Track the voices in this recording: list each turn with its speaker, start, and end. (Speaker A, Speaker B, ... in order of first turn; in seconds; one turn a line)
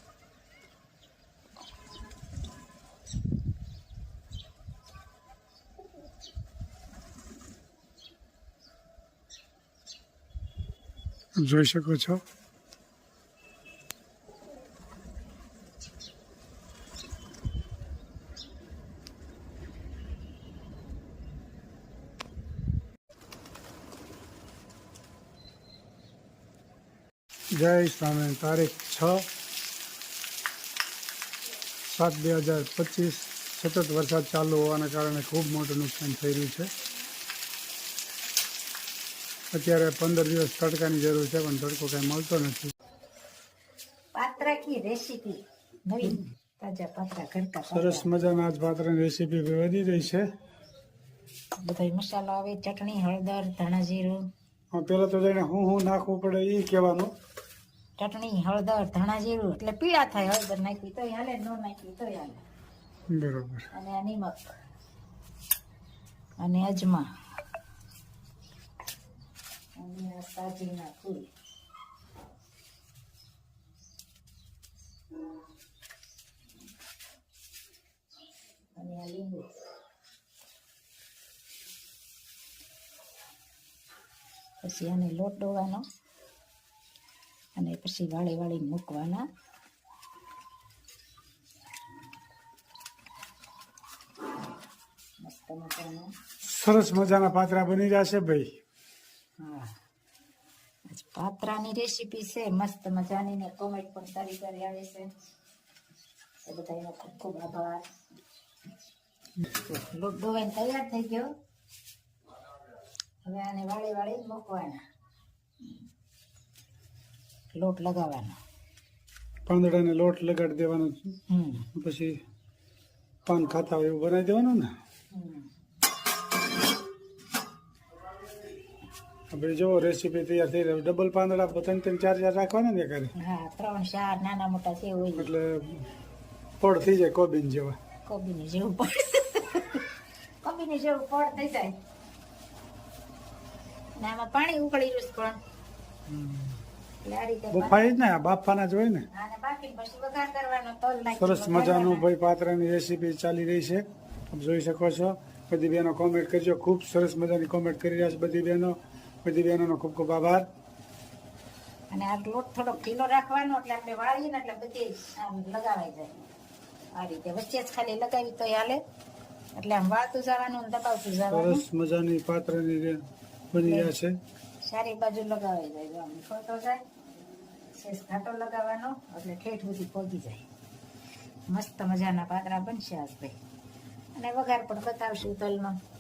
Speaker A: 11.4-12.2
Speaker A: 27.5-29.3
Speaker A: 31.9-36.7
Speaker A: 39.5-42.7
Speaker B: 44.1-48.1
Speaker A: 47.7-50.3
Speaker B: 51.6-54.2
Speaker A: 54.7-57.1
Speaker B: 58.0-62.4
Speaker A: 63.1-63.7
Speaker B: 63.7-64.5
Speaker B: 66.4-67.0
Speaker B: 69.8-71.3
Speaker B: 78.8-79.5
Speaker B: 84.6-85.8
Speaker B: 87.6-89.2
Speaker B: 95.2-96.1
Speaker A: 96.4-98.6
Speaker B: 99.4-99.8
Speaker B: 100.9-105.1
Speaker B: 106.5-107.9
Speaker B: 109.5-111.3
Speaker B: 113.2-114.8
Speaker B: 117.5-118.4
Speaker A: 119.5-121.2
Speaker B: 121.3-121.7
Speaker A: 121.7-122.2
Speaker A: 123.3-124.8
Speaker B: 125.1-125.5
Speaker A: 129.3-133.1
Speaker B: 133.2-135.3
Speaker A: 135.2-135.9
Speaker A: 136.6-137.8
Speaker B: 138.1-139.9
Speaker B: 140.4-141.8
Speaker B: 144.0-145.4
Speaker A: 146.1-146.6
Speaker B: 147.0-147.8
Speaker A: 147.5-149.1
Speaker B: 149.1-152.1
Speaker A: 151.2-160.5
Speaker B: 161.9-166.1
Speaker B: 166.9-168.8
Speaker B: 169.6-171.7
Speaker A: 171.3-174.2
Speaker B: 173.6-173.9
Speaker B: 174.6-176.8
Speaker B: 177.7-180.4
Speaker B: 181.5-183.4
Speaker B: 184.2-185.8